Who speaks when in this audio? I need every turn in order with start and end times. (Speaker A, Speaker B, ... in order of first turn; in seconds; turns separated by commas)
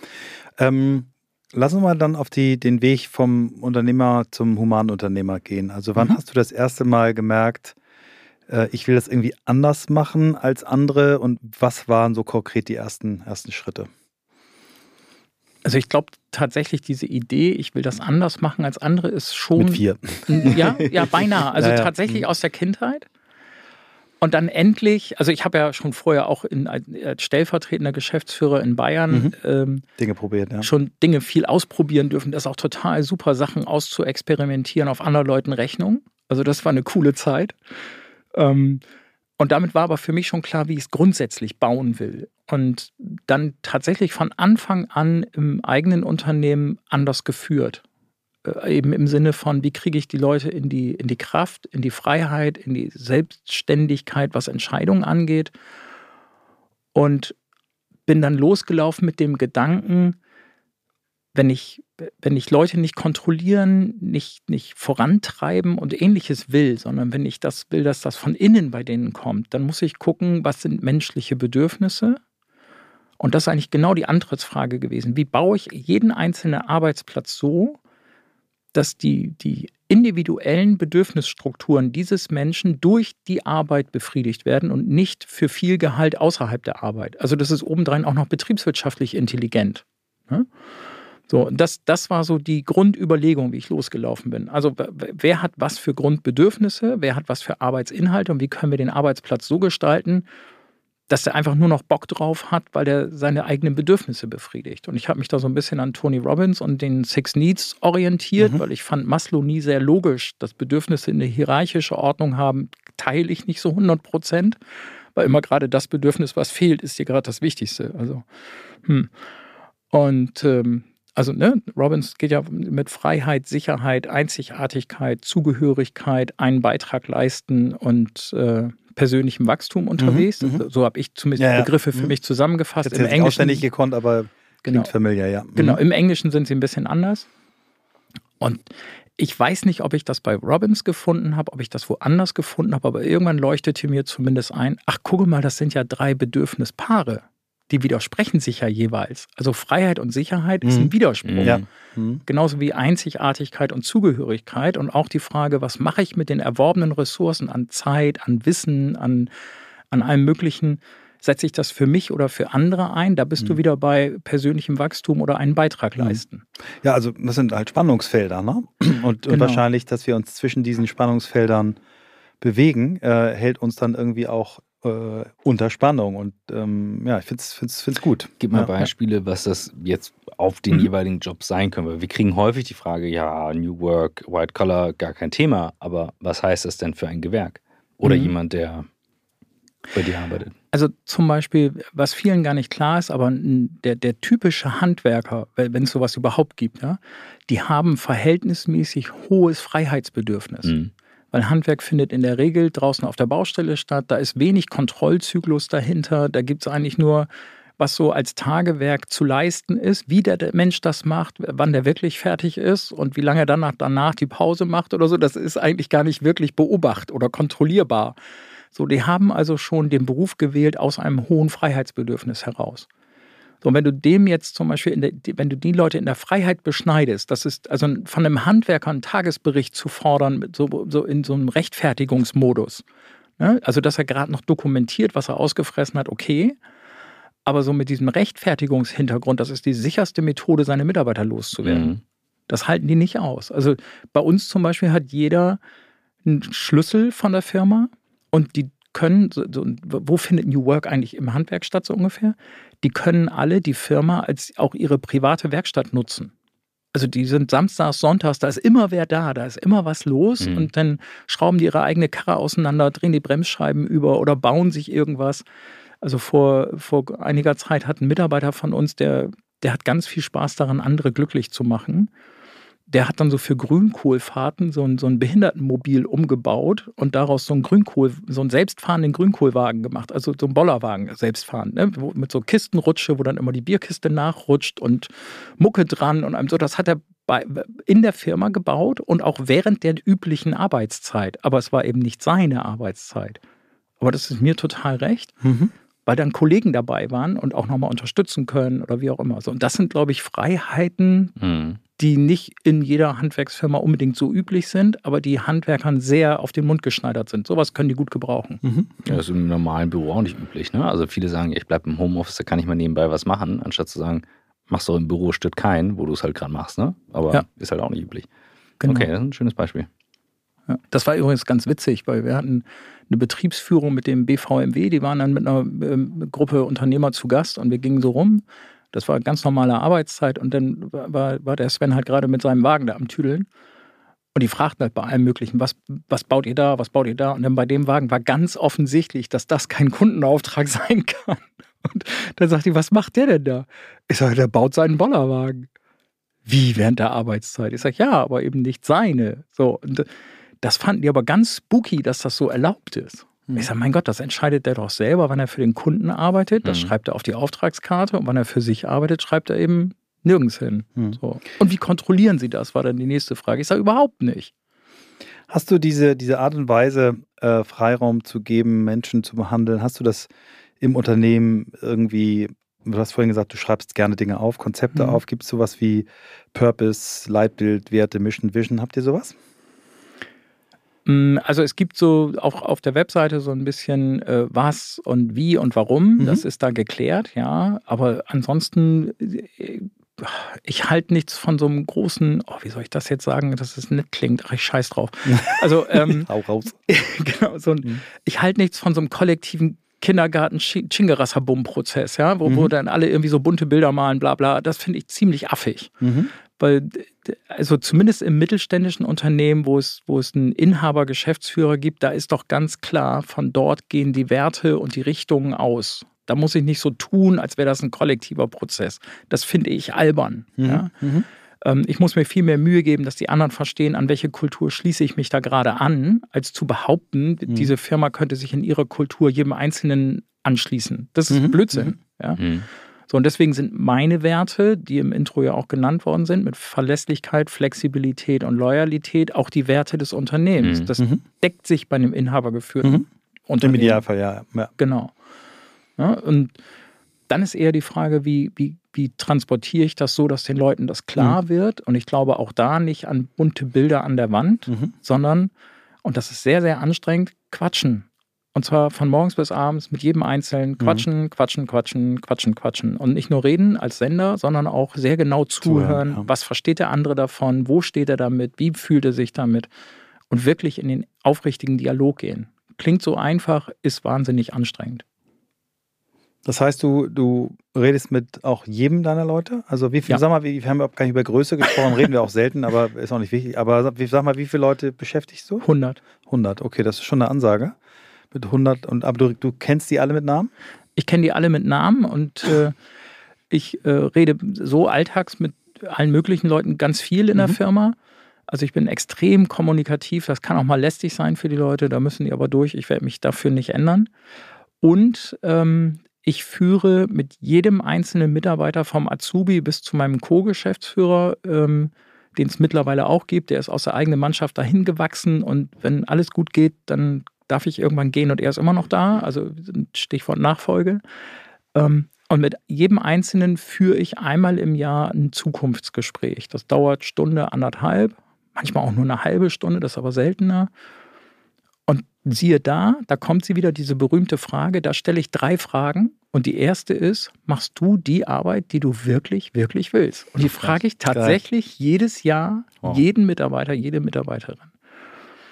Speaker A: 0.6-7.8, Speaker A: 8.5-13.9, Speaker B: 15.6-23.1, Speaker A: 19.5-22.2, Speaker B: 24.2-29.8, Speaker A: 30.0-30.7, Speaker B: 30.6-37.5, Speaker B: 38.3-38.8, Speaker B: 39.4-47.8, Speaker B: 48.4-55.5, Speaker B: 56.9-57.3, Speaker B: 58.1-60.2, Speaker B: 61.3-72.2, Speaker B: 73.2-77.8, Speaker B: 78.7-90.5, Speaker B: 91.3-100.2, Speaker B: 101.1-114.6, Speaker B: 115.1-118.2, Speaker B: 119.9-133.6, Speaker A: 130.0-130.7, Speaker A: 131.4-132.1, Speaker A: 132.8-135.8, Speaker B: 134.6-134.9, Speaker B: 135.5-137.3, Speaker B: 139.2-151.6, Speaker A: 150.6-150.9, Speaker C: 151.2-151.6, Speaker A: 151.4-152.2, Speaker B: 152.3-159.3, Speaker B: 159.9-166.4, Speaker A: 165.9-166.2, Speaker A: 166.8-171.8, Speaker B: 169.3-169.6, Speaker A: 172.4-178.7, Speaker C: 178.4-188.9, Speaker B: 188.0-188.3, Speaker C: 189.9-190.5, Speaker B: 190.7-200.7, Speaker C: 200.6-200.9, Speaker B: 201.3-207.3, Speaker B: 207.8-218.2, Speaker B: 218.7-222.9, Speaker B: 223.6-232.8, Speaker B: 233.4-236.6, Speaker B: 237.4-241.9, Speaker C: 241.6-242.0, Speaker B: 242.5-245.6, Speaker B: 246.2-256.3, Speaker B: 256.9-265.4, Speaker C: 260.4-260.7, Speaker B: 266.0-272.1, Speaker B: 272.9-293.4, Speaker B: 294.0-295.3, Speaker A: 295.4-295.7, Speaker B: 296.1-301.3, Speaker C: 301.4-301.8, Speaker B: 301.9-308.6, Speaker A: 308.6-308.9, Speaker C: 309.0-318.3, Speaker B: 318.8-319.1, Speaker C: 318.8-319.9, Speaker B: 320.7-333.5, Speaker B: 334.3-345.7, Speaker B: 346.4-350.1, Speaker B: 350.6-364.5, Speaker C: 356.6-356.9, Speaker A: 365.5-370.3, Speaker A: 370.8-379.4, Speaker B: 374.9-375.2, Speaker B: 381.0-396.3, Speaker A: 386.2-386.4, Speaker A: 395.3-396.8, Speaker B: 396.9-405.9, Speaker A: 402.4-402.7, Speaker A: 406.0-406.3, Speaker B: 406.6-420.9, Speaker A: 420.6-421.2, Speaker B: 421.6-432.4, Speaker A: 427.5-427.7, Speaker A: 431.3-431.9, Speaker C: 432.4-432.7, Speaker B: 433.1-444.0, Speaker C: 440.6-440.9, Speaker A: 443.6-444.7, Speaker B: 444.8-445.1, Speaker B: 446.0-446.5, Speaker B: 447.3-455.5, Speaker B: 456.0-469.7, Speaker A: 460.8-461.0, Speaker A: 465.6-466.2, Speaker B: 470.3-475.0, Speaker A: 476.4-485.6, Speaker B: 485.6-486.0, Speaker A: 486.3-487.7, Speaker A: 488.3-490.5, Speaker B: 491.0-492.7, Speaker B: 493.5-497.9, Speaker B: 498.5-504.1, Speaker B: 504.8-521.0, Speaker B: 521.7-530.7, Speaker B: 531.9-544.7, Speaker C: 540.5-540.7, Speaker A: 541.1-541.4